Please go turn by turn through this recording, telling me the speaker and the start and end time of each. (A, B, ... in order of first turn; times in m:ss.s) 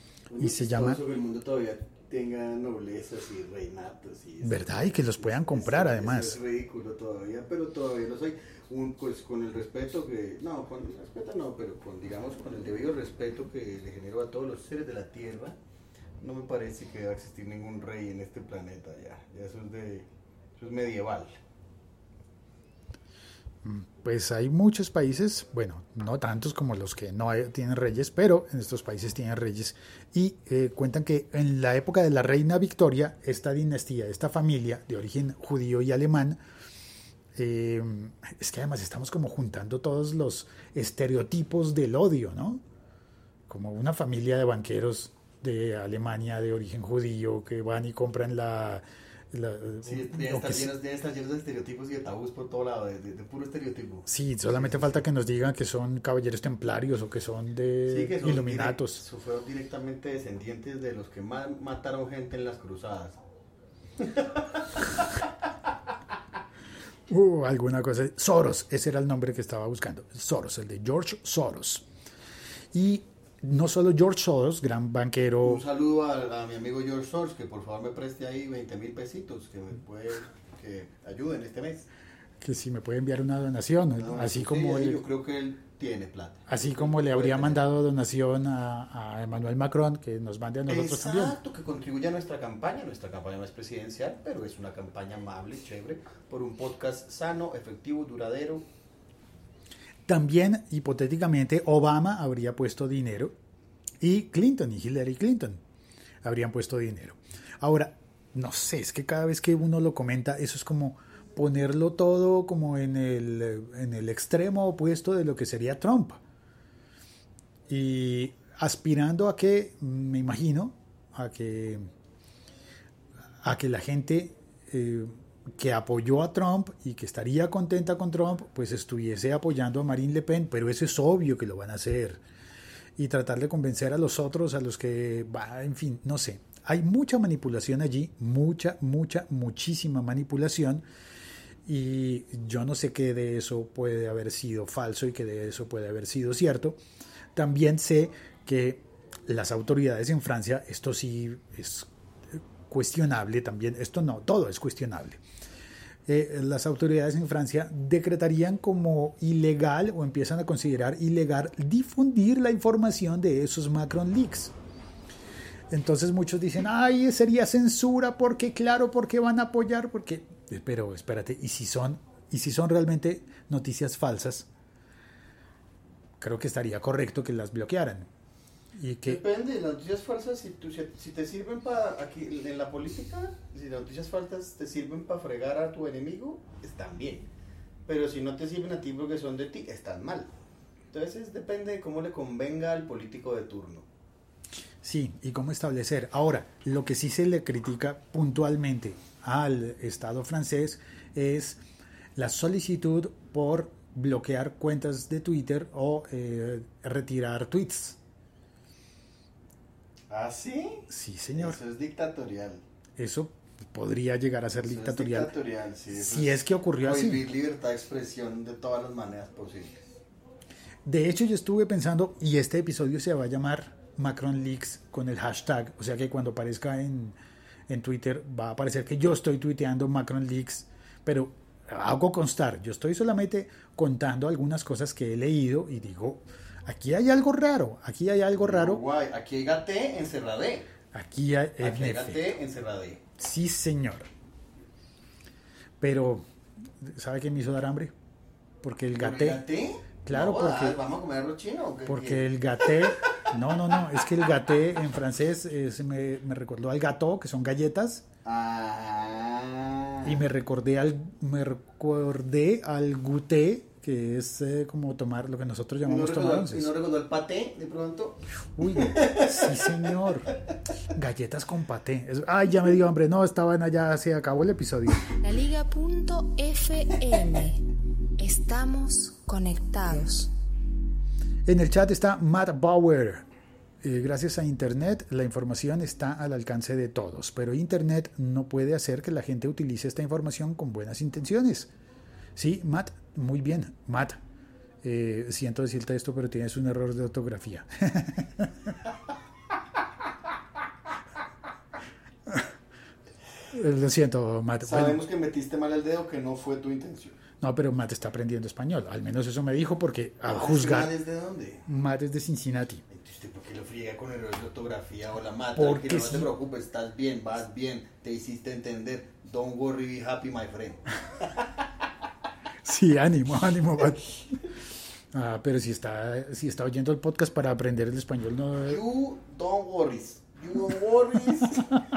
0:00.3-0:15.6 A
0:00.4-0:01.0 B
0:04.4-0:06.4 B
0:16.2-0:21.3 A
0:23.6-0:36.4 B
0:37.4-0:42.6 B
0:43.5-0:50.7 B
0:49.8-0:55.0 A
0:54.1-0:59.0 B
0:57.9-1:03.2 A
1:04.0-1:04.8 A
1:07.1-1:11.8 B
1:12.7-1:15.6 B
1:15.4-1:21.9 A
1:22.4-1:25.0 B
1:24.0-1:27.6 A
1:26.5-1:31.4 B
1:30.7-1:38.7 A
1:40.1-1:43.3 B
1:44.0-1:45.6 B
1:46.2-1:56.2 B
1:57.7-2:01.8 B
2:03.4-2:12.2 B
2:13.0-2:20.9 B
2:21.7-2:26.8 B
2:27.4-2:35.2 B
2:36.1-2:44.5 B
2:45.7-2:54.5 B
2:56.2-2:58.1 B
2:58.8-2:59.2 B
2:59.0-3:07.3 A
3:07.8-3:10.3 A
3:10.9-3:13.9 A
3:14.8-3:21.6 B
3:22.2-3:28.0 B
3:30.1-3:32.6 A
3:30.9-3:31.6 B
3:33.0-3:35.3 B
3:34.6-3:39.9 A
3:35.9-3:37.2 B
3:40.9-3:58.8 B
3:58.4-4:00.7 A
4:00.9-4:02.3 B
4:01.6-4:03.0 A
4:03.2-4:04.1 B
4:05.8-4:06.2 B
4:06.8-4:07.9 B
4:08.6-4:09.4 B
4:09.0-4:12.3 A
4:10.0-4:10.8 B
4:11.9-4:18.0 B
4:18.2-4:20.2 A
4:20.0-4:26.7 B
4:25.8-4:30.0 A
4:28.6-4:30.3 B
4:31.0-4:35.1 B
4:35.2-4:37.6 C
4:38.2-4:40.3 C
4:41.5-4:43.3 B
4:43.8-4:51.7 B
4:52.4-4:54.2 B
4:54.8-4:58.7 B
5:03.5-5:05.0 B
5:04.6-5:07.2 A
5:07.4-5:10.9 B
5:10.3-5:11.7 A
5:11.7-5:12.8 B
5:12.9-5:21.3 A
5:15.6-5:16.3 B
5:22.6-5:24.4 B
5:25.1-5:28.8 B
5:28.6-5:31.8 A